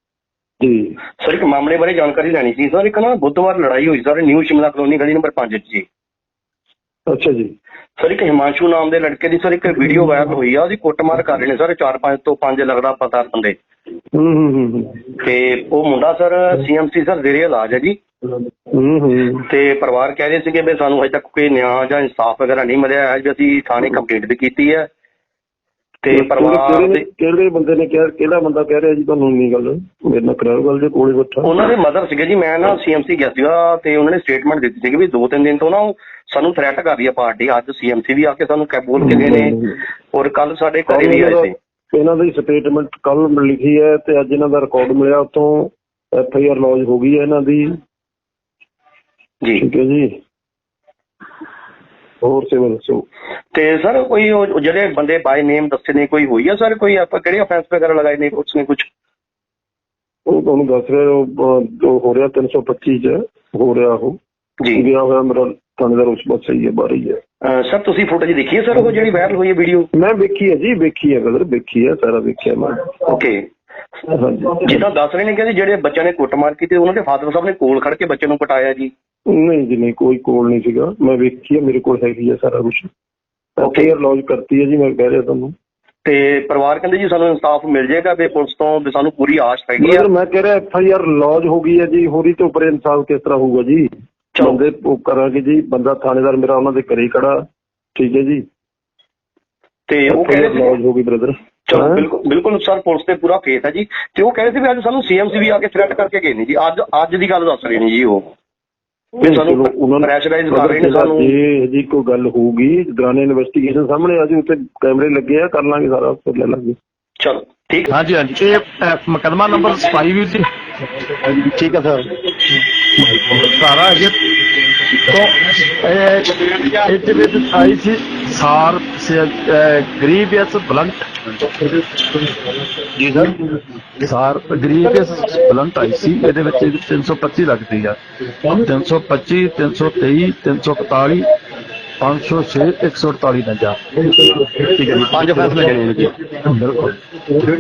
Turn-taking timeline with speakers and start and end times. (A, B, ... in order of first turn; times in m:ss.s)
0:00.6-0:00.9 A
0:01.2-0:05.8 B
0:07.1-0:07.5 A
0:08.0-0:13.6 B
0:14.2-0:14.9 A
0:15.2-0:18.0 B
0:18.7-0:19.4 A
0:19.5-0:24.9 B
0:26.0-0:27.0 B
0:26.1-0:31.5 A
0:31.4-0:39.6 B
0:39.0-0:39.7 A
0:40.1-0:41.5 B
0:40.9-0:47.7 A
0:49.6-0:50.1 A
0:52.2-0:53.0 A
0:53.5-0:58.9 B
1:00.3-1:04.2 A
1:04.8-1:07.2 A
1:07.4-1:09.9 B
1:10.0-1:12.8 A
1:13.0-1:13.4 B
1:14.1-1:14.6 A
1:14.6-1:18.9 B
1:19.3-1:22.9 A
1:23.6-1:25.6 A
1:23.6-1:23.9 B
1:26.0-1:30.1 B
1:29.8-1:37.4 A
1:34.4-1:34.6 B
1:38.0-1:38.4 A
1:39.9-1:40.8 B
1:40.1-1:42.0 A
1:41.7-1:48.3 B
1:49.2-1:56.8 A
1:49.2-1:51.4 B
1:57.2-1:57.9 B
1:57.9-2:00.5 C
2:01.6-2:02.1 B
2:03.0-2:04.2 C
2:05.0-2:11.1 C
2:13.0-2:13.3 B
2:14.0-2:18.0 C
2:18.5-2:21.3 C
2:22.0-2:23.8 C
2:24.8-2:26.2 B
2:26.4-2:27.0 C